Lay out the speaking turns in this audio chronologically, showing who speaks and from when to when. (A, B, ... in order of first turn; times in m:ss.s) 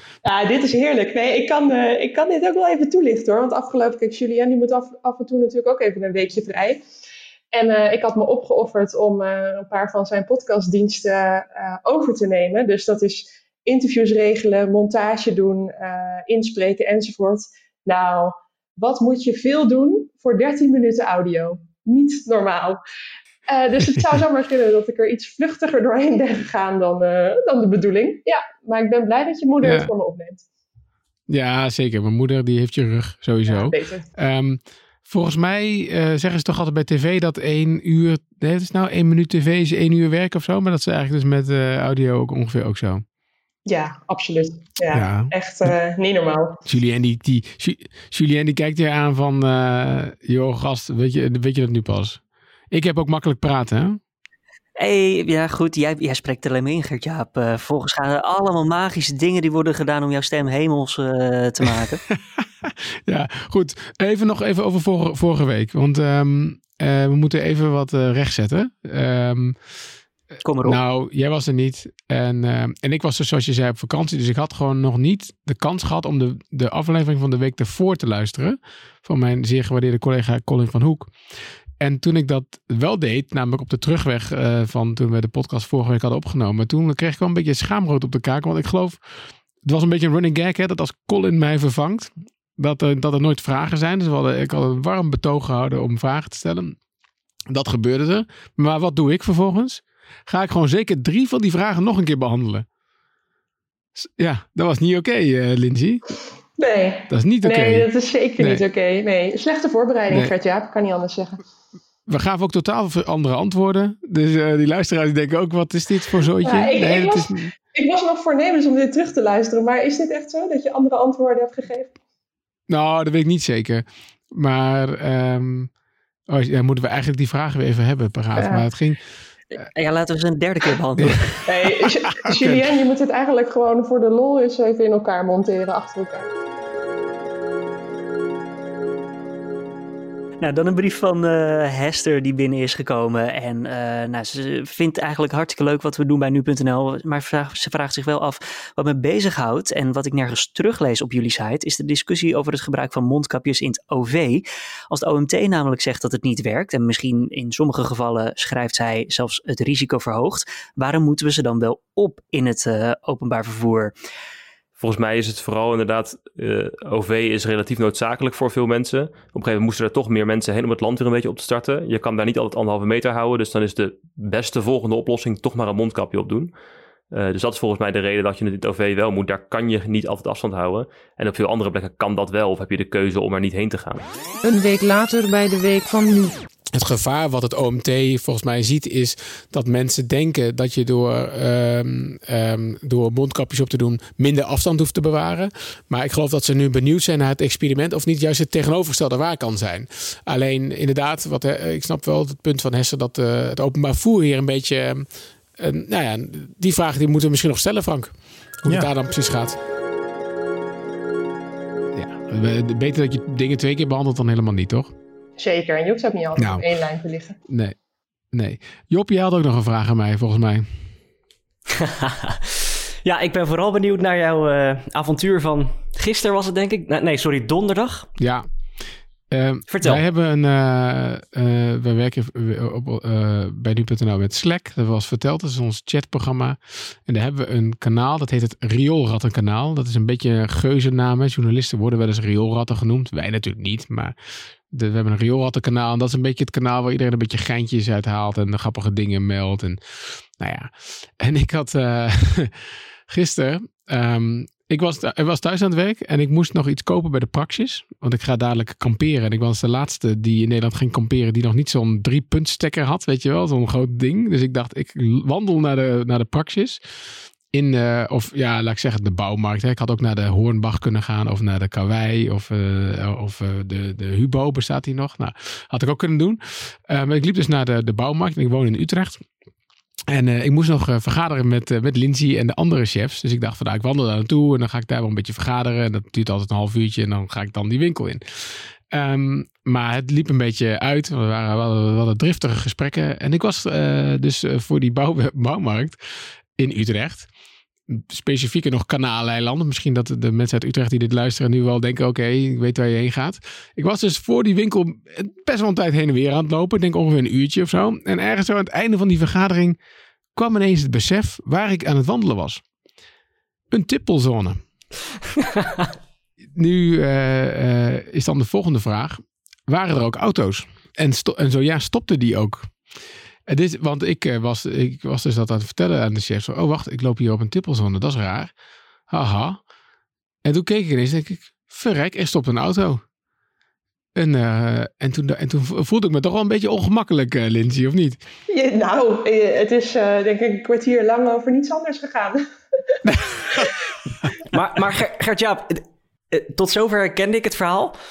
0:00.2-0:06.8 A
0:07.5-0:22.8 A
0:23.5-0:30.4 A
0:29.6-0:29.9 B
0:31.3-0:43.0 B
0:33.5-0:34.0 A
0:43.6-0:46.6 A
0:44.9-0:45.7 B
0:46.6-0:54.0 B
0:54.8-1:02.0 C
1:02.6-1:09.6 B
1:10.4-1:10.8 C
1:10.6-1:21.1 B
1:21.8-1:29.0 B
1:29.6-1:36.8 B
1:37.5-1:42.6 B
1:44.0-1:46.0 B
1:46.6-1:51.4 A
1:47.1-1:48.6 B
1:52.1-1:57.5 B
1:56.4-2:01.9 A
2:02.7-2:05.7 B
2:06.3-2:09.0 B
2:08.4-2:08.6 A
2:09.5-2:11.4 C
2:11.0-2:11.4 B
2:11.4-2:16.3 A
2:12.1-2:12.7 B
2:20.4-2:43.9 C
2:44.8-2:56.5 D
2:57.1-3:04.0 D
3:04.4-3:06.4 E
3:06.7-3:29.6 B
3:31.9-3:34.9 B
3:35.4-3:37.4 A
3:36.4-3:36.6 B
3:37.5-3:37.8 B
3:38.3-3:40.7 B
3:41.7-3:48.1 F
3:48.2-3:48.5 B
3:49.3-4:04.1 B
3:49.7-3:50.0 F
4:04.7-4:26.8 B
4:27.5-4:39.2 B
4:40.1-4:56.0 B
4:56.6-4:57.3 B
4:57.9-5:09.8 B
5:10.3-5:12.6 B
5:13.7-5:14.6 B
5:15.6-5:15.8 F
5:16.5-5:22.7 B
5:23.5-5:28.5 B
5:29.1-5:29.6 B
5:30.4-5:33.0 B
5:34.1-5:38.2 B
5:38.5-5:43.7 A
5:43.0-5:43.6 B
5:44.5-5:47.9 F